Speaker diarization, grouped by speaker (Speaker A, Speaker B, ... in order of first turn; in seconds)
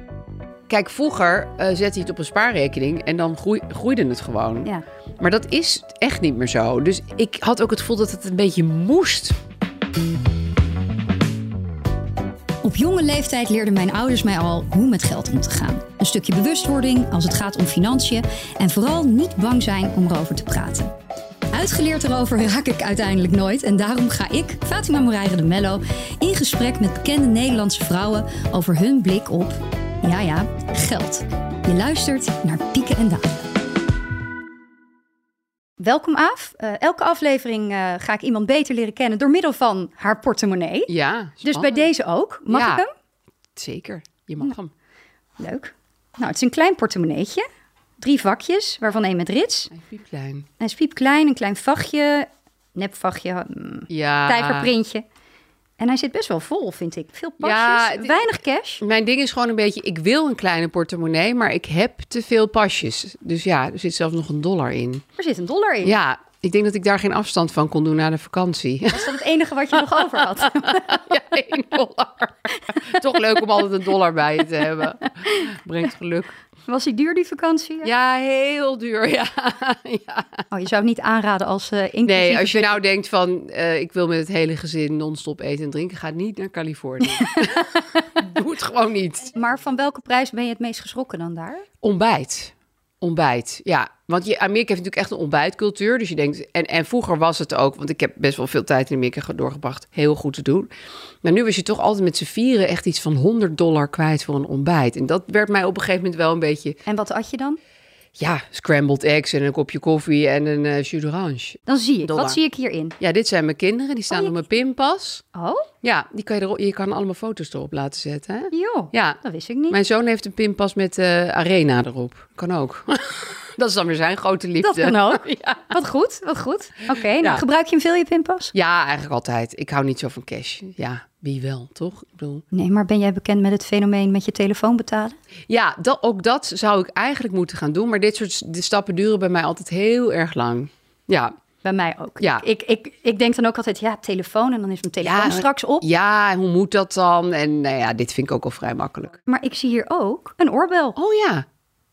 Speaker A: 0.7-9.4, 40.9-41.9, 42.5-42.8, 43.6-44.7, 49.7-50.5, 53.9-54.7, 57.4-58.3, 58.8-65.0, 65.8-69.2, 69.8-76.4, 77.8-80.4, 82.0-89.3, 91.8-100.7, 101.2-106.8, 108.2-112.4, 113.0-115.2, 115.8-125.7, 127.2-127.4, 128.5-132.4, 135.5-141.3, 145.0-149.2, 151.0-151.5
Speaker B: 12.6-20.9, 21.5-33.4, 35.8-40.9, 41.4-42.9, 45.4-47.5, 48.0-49.7, 50.6-55.0, 55.8-58.8, 65.2-66.0, 68.9-71.1, 74.7-75.5, 76.7-77.9, 80.5-82.8, 89.3-91.7, 106.9-107.6, 111.7-113.0, 115.3-115.7, 118.5-119.8, 124.6-128.5, 132.5-135.2, 141.6-145.9, 149.3-151.0